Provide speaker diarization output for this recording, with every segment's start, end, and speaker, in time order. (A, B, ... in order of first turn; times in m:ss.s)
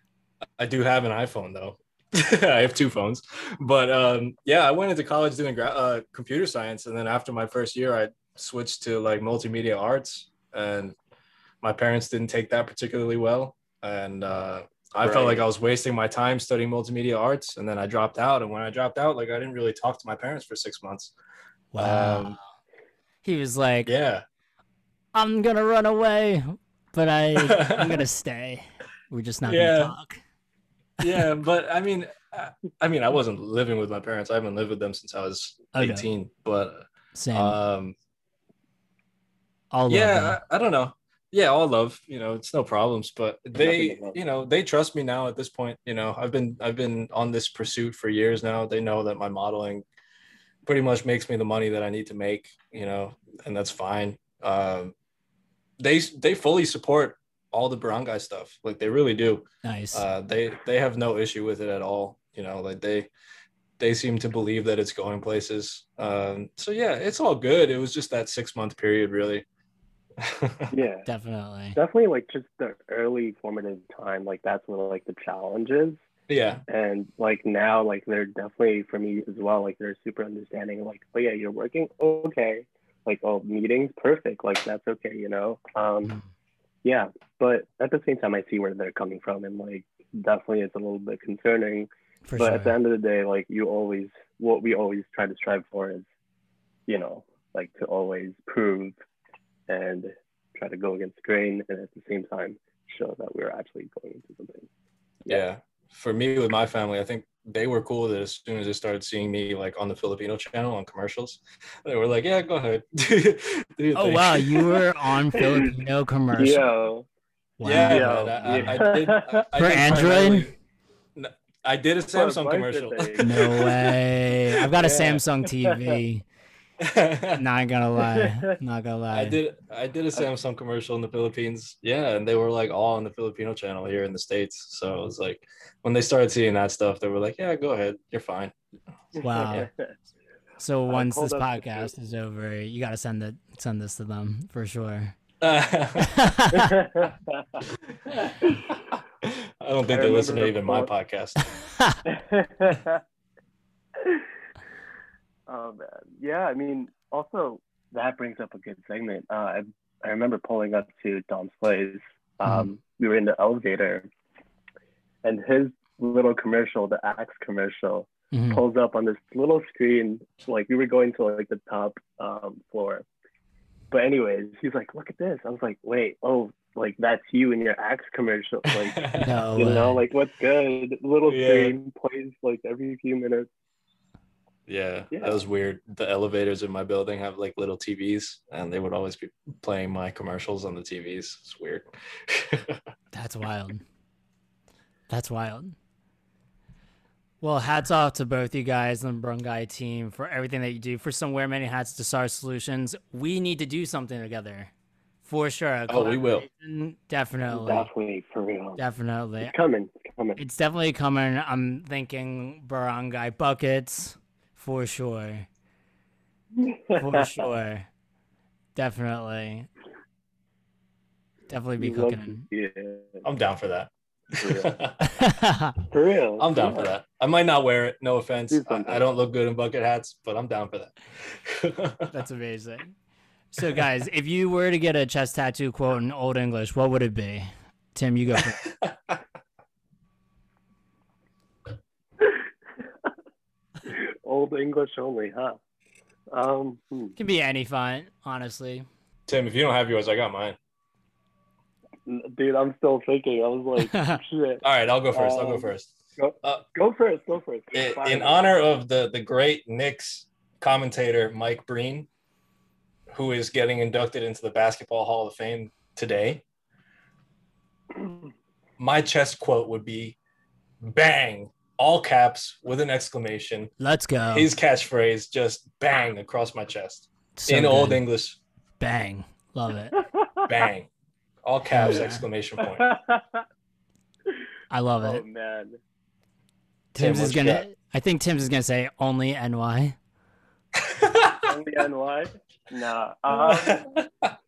0:00.6-0:11.0 A
0:11.6-0:21.1 A
0:15.0-0:15.4 B
0:21.7-0:22.4 C
0:21.8-0:22.4 A
0:23.2-0:23.9 C
0:23.9-0:24.2 A
0:25.1-0:30.2 C
0:27.4-0:28.0 A
0:29.5-0:29.9 A
0:31.0-0:38.0 A
0:35.7-0:36.1 C
0:37.1-0:37.6 C
0:39.7-0:40.4 C
0:39.9-0:49.8 A
0:43.6-0:44.2 B
0:50.6-0:54.9 A
0:55.8-1:03.1 A
0:59.6-1:00.0 C
1:03.8-1:09.4 A
1:10.2-1:10.7 A
1:10.7-1:11.1 B
1:11.1-1:11.8 C
1:11.8-1:16.0 B
1:16.3-1:16.6 A
1:16.7-1:26.1 B
1:26.8-1:36.1 B
1:32.3-1:32.7 C
1:36.9-1:39.0 B
1:39.7-1:44.7 B
1:45.3-1:54.7 A
1:53.9-1:56.6 C
1:55.3-1:55.7 B
1:56.4-1:57.1 B
1:57.6-1:58.9 C
1:57.6-2:00.6 A
1:57.8-1:59.5 B
1:59.6-2:00.5 C
2:01.2-2:03.9 A
2:02.1-2:03.7 B
2:03.2-2:06.2 C
2:04.6-2:05.2 A
2:05.6-2:06.0 B
2:06.8-2:07.4 A
2:07.4-2:09.4 C
2:08.1-2:08.5 B
2:09.1-2:18.5 A
2:19.2-2:19.9 B
2:19.2-2:19.7 C
2:20.6-2:25.2 C
2:20.9-2:21.9 B
2:25.4-2:26.1 A
2:26.0-2:26.7 C
2:26.7-2:27.6 B
2:28.1-2:31.4 A
2:29.9-2:30.9 B
2:31.6-2:32.0 C
2:32.1-2:33.0 B
2:34.0-2:34.2 B
2:35.5-2:44.1 B
2:42.4-2:42.7 C
2:45.2-2:53.0 B
2:48.3-2:48.6 C
2:53.9-3:03.5 B
2:58.7-2:59.3 A
2:59.2-3:00.0 C
3:01.3-3:01.8 A
3:04.7-3:12.8 A
3:05.1-3:05.4 B
3:13.1-3:13.8 C
3:15.1-3:15.8 C
3:17.4-3:24.7 C
3:25.2-3:27.9 C
3:25.9-3:26.5 A
3:27.5-3:28.8 B
3:28.8-3:29.5 C
3:29.4-3:30.4 B
3:30.4-3:35.5 C
3:36.6-3:37.5 B
3:37.0-3:37.9 C
3:38.8-3:39.7 C
3:41.5-3:42.5 C
3:41.8-3:43.2 B
3:43.2-3:45.0 A
3:44.4-3:44.8 B
3:45.0-3:45.8 C
3:45.9-3:46.9 B
3:46.4-3:52.1 A
3:48.5-3:49.0 B
3:52.1-3:53.0 C
3:53.5-3:58.6 C
3:58.6-3:59.2 A
4:03.9-4:05.6 B
4:06.3-4:07.2 B
4:07.2-4:08.9 C
4:09.3-4:10.6 A
4:12.1-4:18.5 B
4:13.8-4:14.2 C
4:14.6-4:15.9 A
4:17.7-4:22.1 A
4:23.1-4:26.4 A
4:28.8-4:30.2 A
4:30.8-4:33.7 A
4:33.8-4:34.5 C
4:34.3-4:38.4 A
4:37.4-4:38.0 C
4:38.8-4:40.0 C
4:40.0-4:40.6 B
4:40.5-4:40.9 A
4:41.4-4:42.8 A
4:41.7-4:42.3 C
4:42.6-4:43.4 B
4:44.7-4:45.2 C
4:45.0-4:45.8 B
4:46.9-4:50.0 C
4:47.0-4:47.7 A
4:50.8-4:51.5 A
4:51.4-4:54.0 B
4:53.3-4:54.3 A